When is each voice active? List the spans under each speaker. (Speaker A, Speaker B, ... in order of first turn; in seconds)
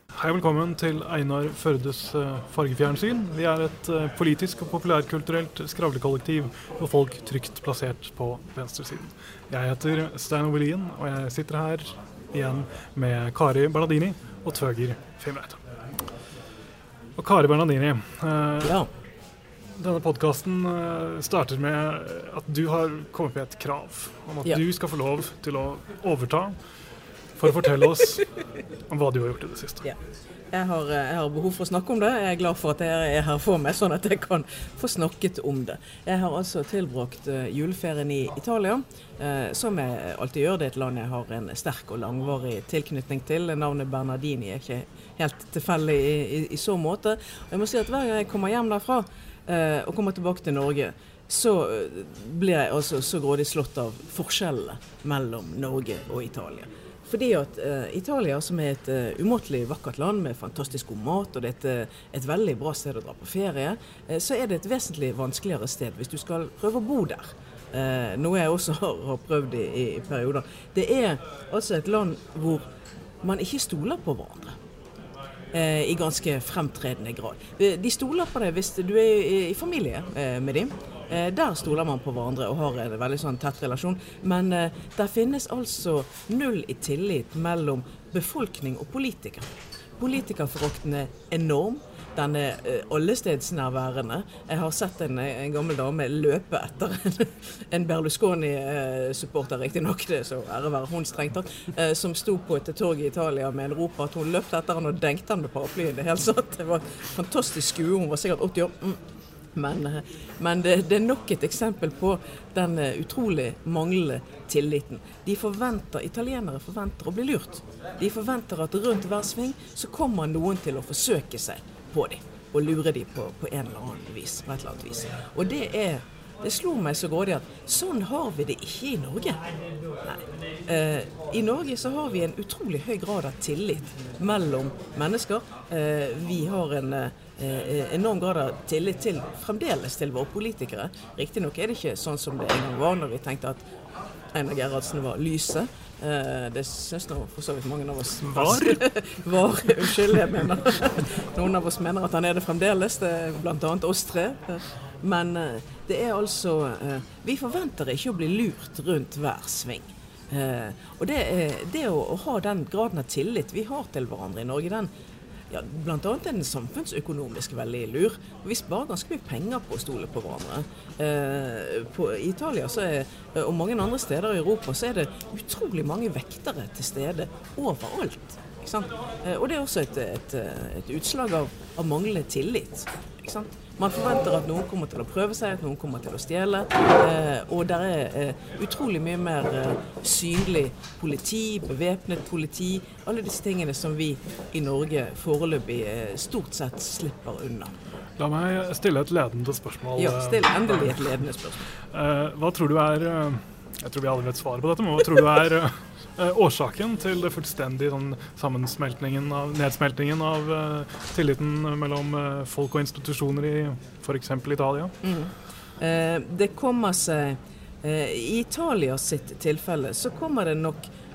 Speaker A: 0.1-15.6, 17.2-18.8, 19.8-26.5, 27.4-28.3, 28.9-29.8, 148.2-148.8, 198.2-201.0, 201.9-214.9
Speaker B: 18.6-18.9, 30.5-72.7, 73.2-74.6, 75.5-109.0, 109.5-129.4, 130.0-143.7, 144.3-164.9, 165.5-197.7, 199.9-201.6, 215.0-220.9